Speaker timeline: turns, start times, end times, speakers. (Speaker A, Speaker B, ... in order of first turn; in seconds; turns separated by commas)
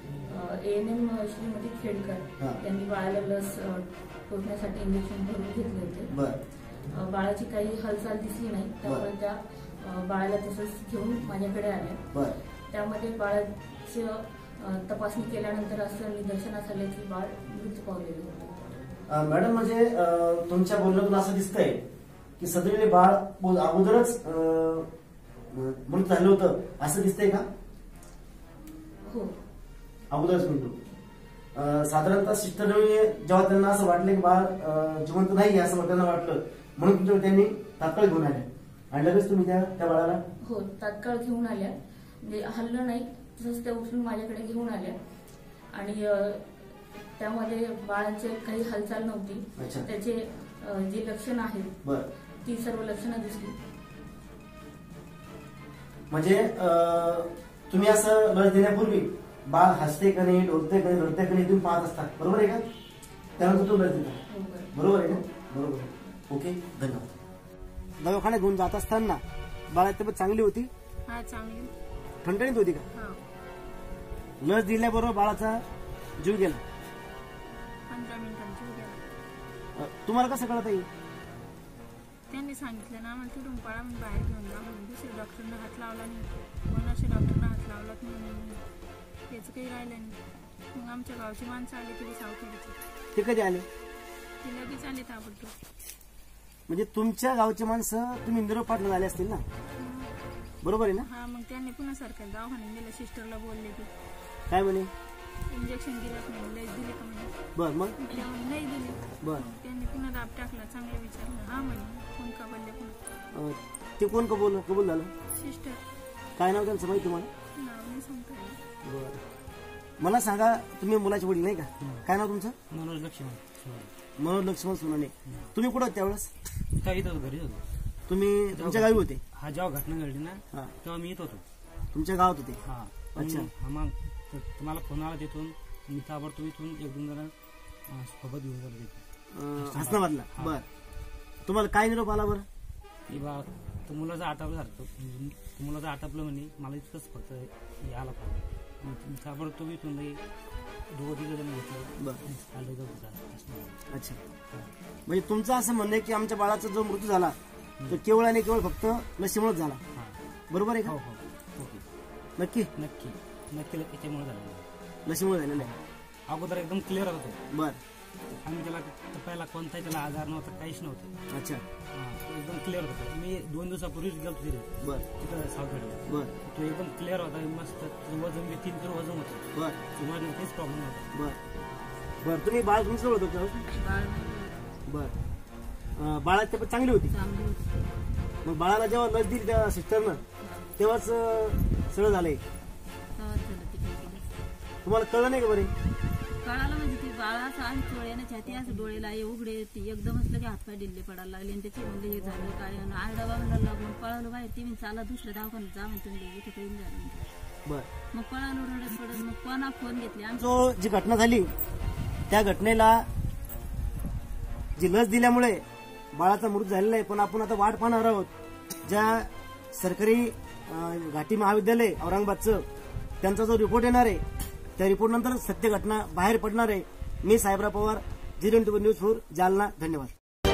Speaker A: 0.2-6.1, Speaker B: 6.1-6.4, Speaker A: 6.9-12.0, Speaker A: 12.7-18.8, Speaker B: 19.1-21.8, Speaker B: 22.4-24.9, Speaker B: 25.5-27.5, Speaker A: 29.0-29.3, Speaker B: 30.1-30.8, Speaker B: 31.5-40.2, Speaker A: 40.4-45.0, Speaker A: 45.7-46.5, Speaker A: 47.2-51.8, Speaker B: 49.6-49.9, Speaker A: 52.4-53.5, Speaker B: 56.1-62.6, Speaker B: 63.4-64.2, Speaker A: 64.3-64.7, Speaker B: 64.7-67.1, Speaker B: 68.0-70.7, Speaker C: 71.1-71.7, Speaker B: 72.2-72.8, Speaker C: 72.9-73.2, Speaker B: 74.4-75.6, Speaker B: 76.2-76.6, Speaker C: 77.9-79.0, Speaker B: 79.8-80.9, Speaker C: 82.3-88.6, Speaker C: 89.3-90.2, Speaker C: 90.7-92.8, Speaker B: 93.2-93.7, Speaker C: 94.4-95.5, Speaker B: 96.7-99.4, Speaker C: 99.8-100.1, Speaker B: 100.6-101.0, Speaker C: 101.0-103.9, Speaker B: 104.5-104.9, Speaker C: 105.5-107.3, Speaker B: 107.5-108.0, Speaker C: 108.0-113.0, Speaker B: 113.3-115.1, Speaker C: 115.3-115.8, Speaker B: 116.4-117.3, Speaker C: 117.5-118.6, Speaker B: 118.8-119.2, Speaker B: 120.0-122.5, Speaker D: 121.8-122.0, Speaker D: 122.7-123.9, Speaker B: 124.2-126.3, Speaker D: 125.3-125.5, Speaker D: 126.8-127.6, Speaker B: 128.1-129.2, Speaker D: 128.5-131.4, Speaker B: 131.9-132.6, Speaker D: 132.6-137.3, Speaker B: 133.2-133.5, Speaker D: 137.9-139.0, Speaker B: 139.3-140.7, Speaker D: 139.6-140.6, Speaker B: 141.5-142.5, Speaker D: 143.1-150.2, Speaker D: 150.9-153.8, Speaker B: 153.9-154.2, Speaker B: 155.1-157.3, Speaker B: 157.9-159.8, Speaker B: 160.5-160.9, Speaker D: 160.8-161.8, Speaker B: 162.4-162.7, Speaker D: 162.8-164.6, Speaker B: 165.1-165.7, Speaker D: 166.3-167.4, Speaker B: 167.5-167.8, Speaker D: 168.4-171.1, Speaker B: 171.3-171.6, Speaker D: 171.9-181.1, Speaker B: 181.1-181.4, Speaker B: 182.2-183.5, Speaker E: 183.6-184.5, Speaker B: 184.9-185.1, Speaker B: 186.0-187.1, Speaker E: 187.1-187.7, Speaker B: 188.4-190.2, Speaker E: 190.4-190.7, Speaker B: 190.8-192.4, Speaker E: 193.2-194.2, Speaker B: 194.8-195.7, Speaker E: 196.4-207.2, Speaker E: 208.1-210.5, Speaker B: 210.4-211.5, Speaker B: 212.3-213.1, Speaker B: 214.8-218.3, Speaker B: 218.8-222.7, Speaker B: 223.2-224.2, Speaker B: 224.8-230.1